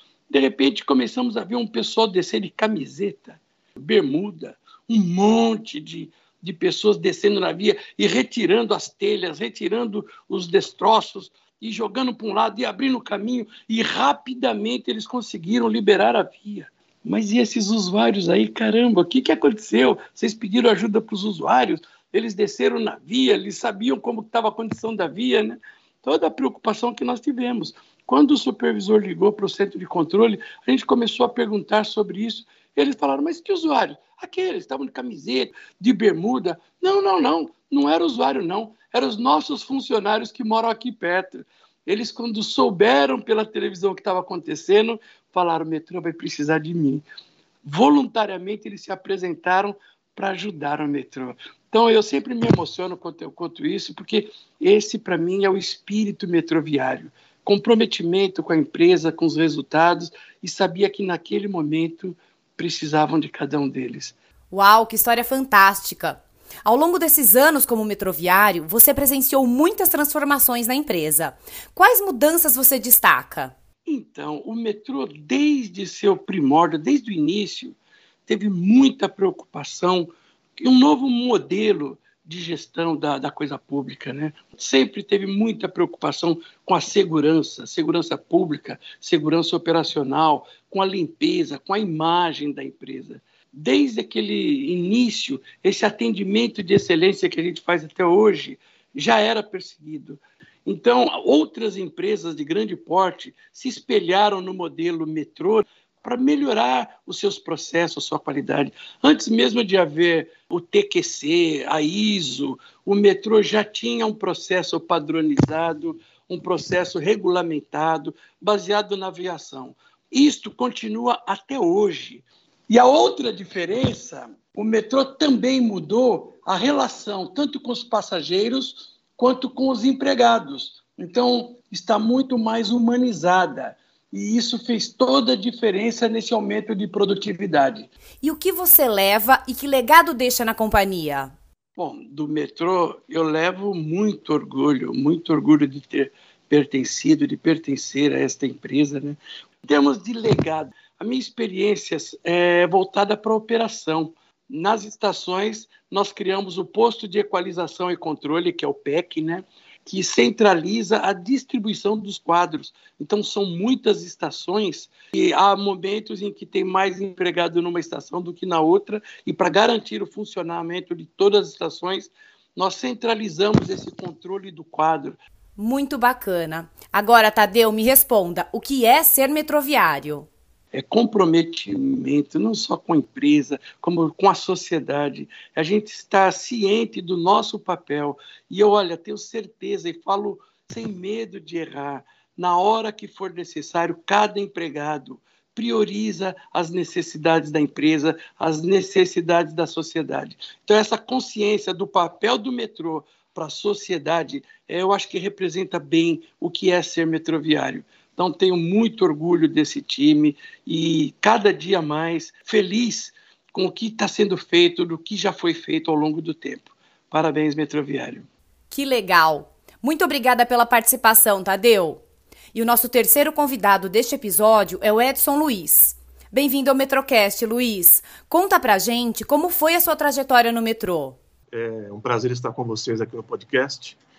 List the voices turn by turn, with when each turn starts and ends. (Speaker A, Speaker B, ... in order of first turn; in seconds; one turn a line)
Speaker A: 0.3-47.0
Speaker A: 47.6-64.1
Speaker B: 64.5-73.5
Speaker A: 73.8-77.8
Speaker A: 78.3-137.9
Speaker B: 138.2-141.3
Speaker A: 141.8-175.2
Speaker B: 175.6-180.3
Speaker A: 180.7-218.3
Speaker B: 218.7-222.0
Speaker B: 222.5-231.2
Speaker C: 231.5-234.0